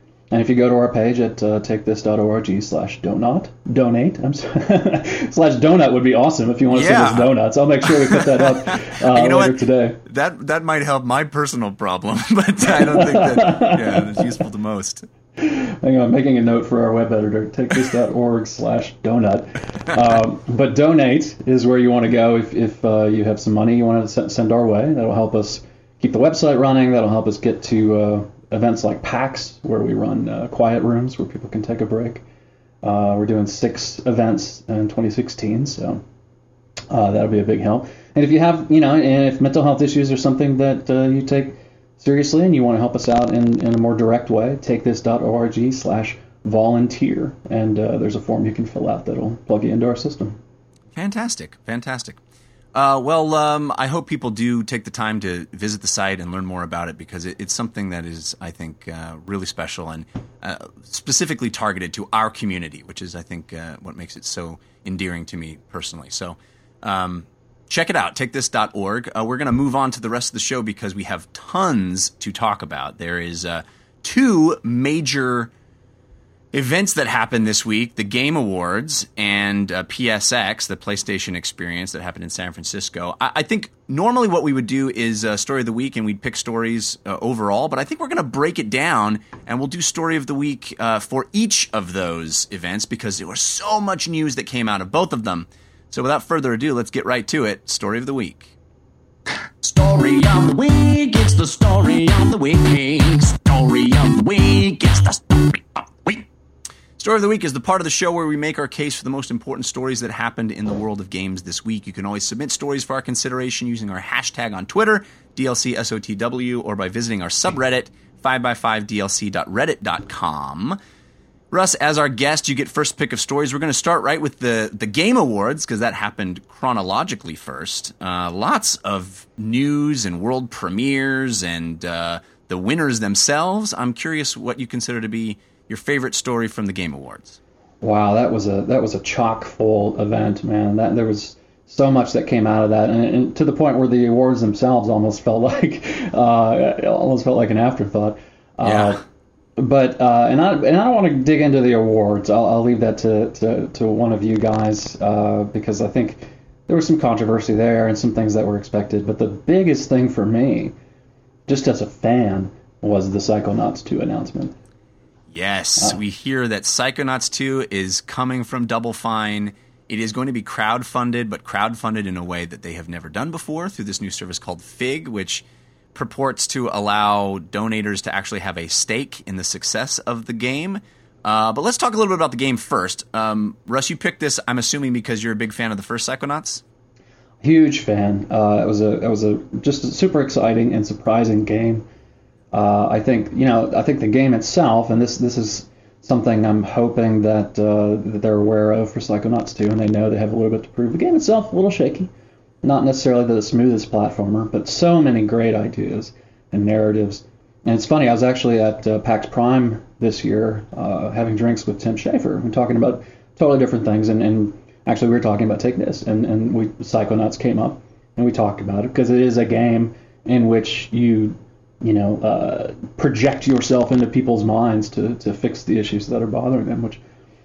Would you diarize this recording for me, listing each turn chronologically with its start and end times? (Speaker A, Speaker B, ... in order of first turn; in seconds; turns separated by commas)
Speaker A: 0.3-10.0, Speaker B: 6.7-15.1, Speaker A: 12.6-14.3, Speaker A: 15.4-32.2, Speaker A: 32.8-36.0, Speaker A: 36.9-50.4, Speaker B: 50.9-52.2, Speaker B: 52.7-75.5, Speaker B: 76.5-98.5, Speaker B: 99.6-106.3, Speaker B: 107.0-120.8, Speaker B: 121.5-137.4, Speaker A: 137.8-149.0, Speaker B: 148.6-149.0, Speaker A: 149.6-160.7, Speaker A: 161.5-164.5, Speaker B: 165.3-186.6, Speaker A: 187.4-191.8, Speaker A: 192.5-202.1, Speaker A: 202.6-227.0